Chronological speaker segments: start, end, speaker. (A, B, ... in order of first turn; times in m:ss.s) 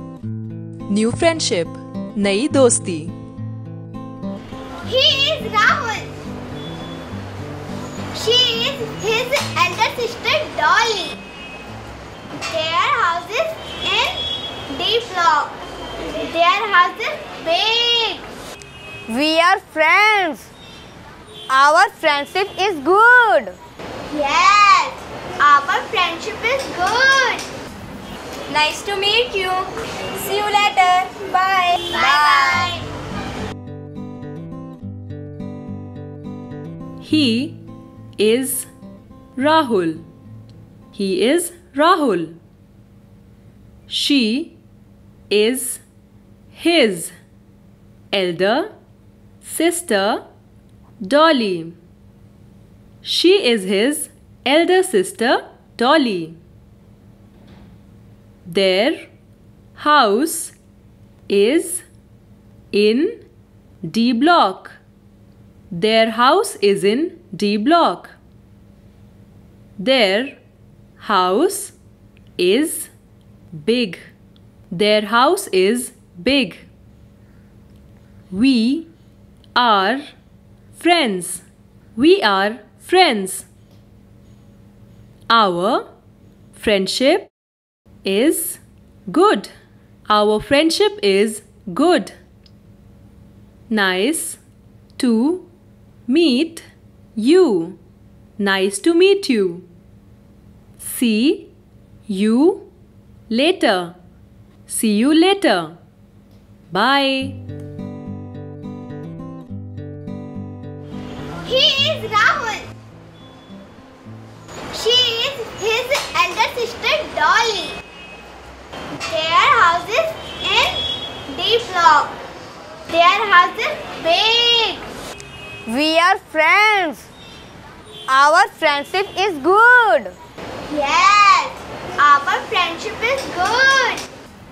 0:00.9-0:03.1 A
0:04.8-0:06.1 B
0:08.2-0:11.2 B
0:12.5-0:15.5 B
0:16.2-0:18.2 B
0:19.1-0:20.5 C
0:21.5-0:23.6 C
0:24.1-0:27.4 B
0:28.5-0:32.7 C
0:31.9-0:32.9 B
0:37.0-0:37.6 A
0:38.2-0:38.7 A
0:39.4-0:40.0 A
0:40.9-0:42.4 A
0:43.9-0:44.6 A
0:45.3-0:45.8 A
0:46.5-0:47.1 A
0:48.1-0:48.7 A
0:49.4-0:50.2 A
0:51.0-0:51.8 A
0:53.0-0:56.4 A
0:58.4-0:59.1 A
0:59.8-1:00.6 A
1:01.3-1:01.8 A
1:02.7-1:03.2 A
1:03.8-1:04.8 A
1:05.7-1:08.2 A
1:09.8-1:10.4 A
1:11.0-1:11.8 A
1:12.4-1:12.9 A
1:13.5-1:14.1 A
1:14.7-1:16.7 A
1:18.3-1:18.9 A
1:19.6-1:20.0 A
1:20.8-1:23.5 A
1:25.3-1:25.8 A
1:26.5-1:27.3 A
1:28.0-1:29.5 A
1:30.1-1:32.2 A
1:33.7-1:34.4 A
1:35.0-1:35.5 A
1:36.1-1:37.8 A
1:38.4-1:39.7 A
1:40.8-1:41.5 A
1:42.1-1:42.7 A
1:43.3-1:44.0 A
1:44.7-1:45.8 A
1:46.7-1:47.4 A
1:51.4-1:52.7 B
1:54.7-1:57.8 B
1:59.0-2:02.1 B
2:02.9-2:04.8 B
2:05.7-2:07.1 C
2:08.1-2:10.2 C
2:10.7-2:14.0 B